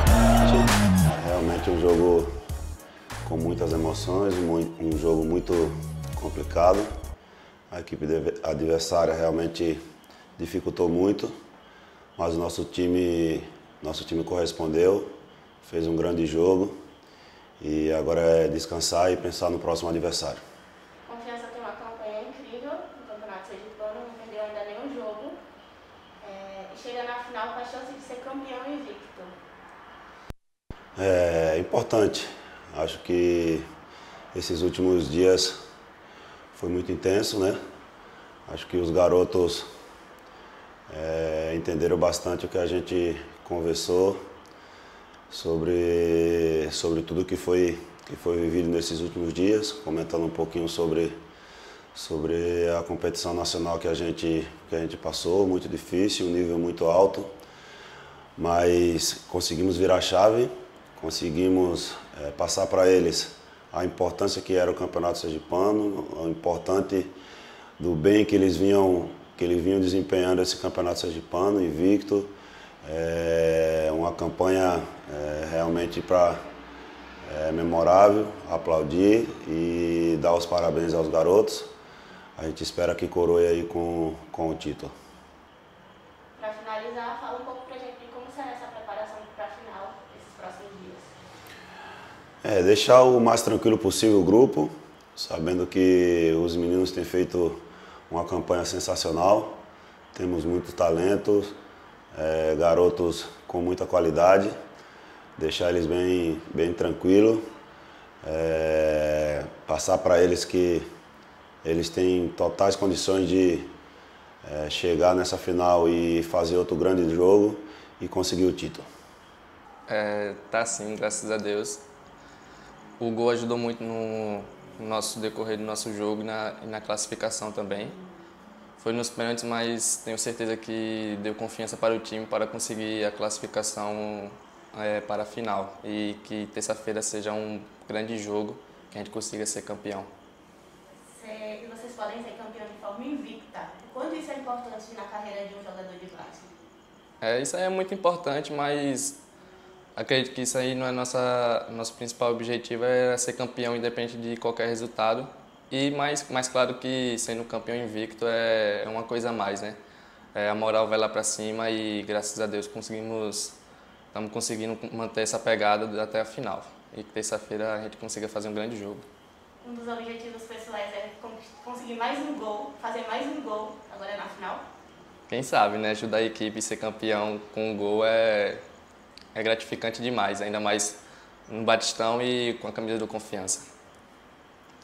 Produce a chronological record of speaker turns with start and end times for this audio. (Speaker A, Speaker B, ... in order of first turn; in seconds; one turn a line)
Speaker A: 0.4-2.3
Speaker A: 3.2-6.9
Speaker A: 7.7-9.8
Speaker A: 10.4-11.3
Speaker A: 12.2-15.1
Speaker A: 15.6-16.8
Speaker A: 17.6-20.4
Speaker B: 21.1-25.4
Speaker B: 26.2-29.3
Speaker A: 31.0-33.6
Speaker A: 34.3-35.6
Speaker A: 36.5-37.6
Speaker A: 38.5-39.7
Speaker A: 40.9-44.2
Speaker A: 45.3-51.2
Speaker A: 51.9-57.3
Speaker A: 58.4-67.1
Speaker A: 67.8-72.3
Speaker A: 72.8-76.4
Speaker A: 77.2-81.7
Speaker A: 82.4-84.9
Speaker B: 86.3-91.1
Speaker A: 92.4-99.6
Speaker A: 100.1-101.5
Speaker A: 102.1-104.5
Speaker A: 105.4-107.5
Speaker A: 108.2-110.8
Speaker A: 111.6-113.7
Speaker A: 114.4-118.8
Speaker C: 119.9-121.8
Speaker C: 123.0-128.0
Speaker C: 128.8-140.1
Speaker B: 141.0-146.5
Speaker C: 147.2-149.2
Speaker C: 149.9-159.8
Speaker C: 160.3-163.6
Speaker C: 164.1-169.1
Speaker B: 169.6-174.6
Speaker C: 175.3-178.6
Speaker C: 179.3-183.7